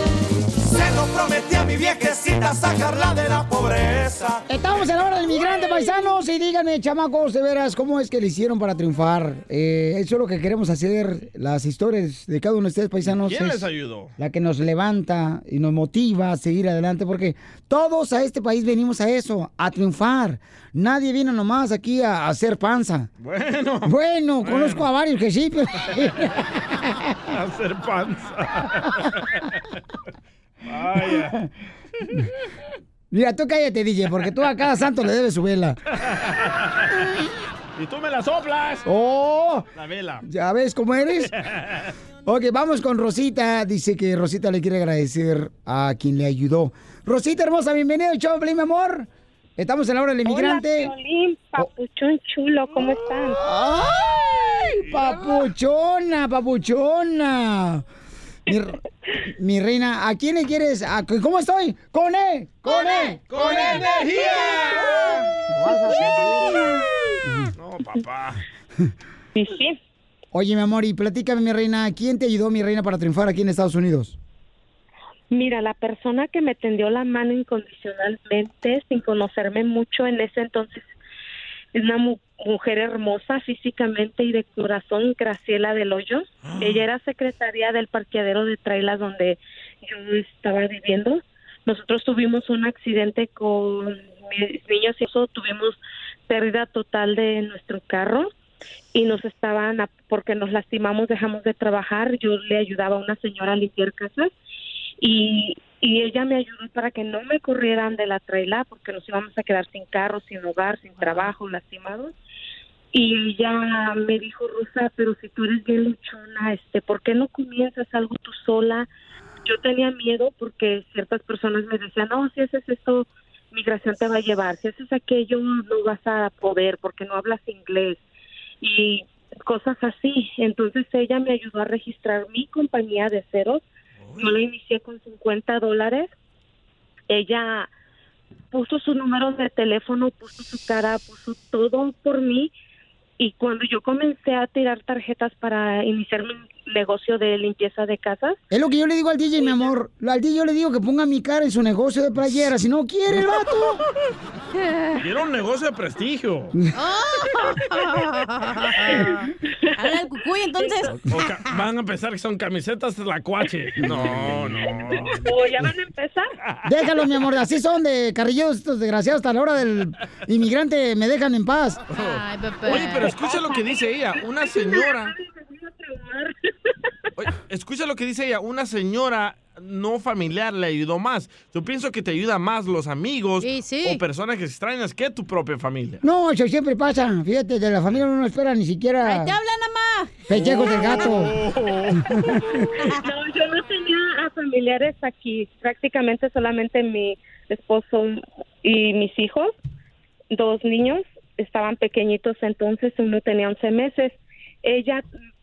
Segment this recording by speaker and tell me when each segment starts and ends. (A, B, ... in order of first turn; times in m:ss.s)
0:00.6-0:04.4 A
0:04.5-0:23.1 B
0:13.1-0:14.1 C
0:23.2-0:23.9 C
0:23.8-0:27.1 B
0:24.4-0:24.9 C
0:27.3-0:29.4 C
0:30.6-0:31.4 C
0:33.1-0:35.8 B
0:36.1-0:36.9 C
0:37.8-0:38.9 C
0:38.9-0:39.7 B
0:39.8-0:40.2 C
0:40.2-0:41.3 B
0:41.4-0:41.8 C
0:42.2-0:50.9 B
0:50.3-0:53.4 D
0:53.4-0:57.8 B
0:54.8-0:55.4 C
0:58.5-1:04.5 B
1:02.7-1:03.1 E
1:03.3-1:05.3 C
1:03.8-1:04.0 E
1:05.4-1:06.7 B
1:07.2-1:07.5 B
1:07.6-1:08.4 C
1:09.4-1:09.8 D
1:10.3-1:14.2 B
1:15.3-1:20.8 D
1:21.7-1:38.3 D
1:26.4-1:26.9 C
1:38.9-1:44.3 D
1:45.0-1:52.1 D
1:52.9-1:58.9 D
1:59.4-2:08.0 D
2:08.6-2:13.6 D
2:14.0-2:14.4 C
2:14.2-2:16.1 D
2:17.1-2:17.7 D
2:18.5-2:22.5 D
2:23.2-2:28.4 D
2:28.5-2:33.8 B
2:35.0-2:36.5 C
2:36.8-2:41.0 E
2:38.8-2:39.8 D
2:41.0-2:45.2 C
2:45.1-2:46.3 D
2:46.6-2:51.8 B
2:51.9-2:55.1 C
2:52.0-2:53.2 E
2:53.2-2:56.4 D
2:57.2-3:06.0 C
3:03.4-3:04.0 E
3:06.0-3:09.4 B
3:09.0-3:10.3 E
3:10.3-3:11.4 B
3:10.3-3:12.0 C
3:12.1-3:12.6 B
3:13.0-3:19.6 D
3:20.3-3:25.0 D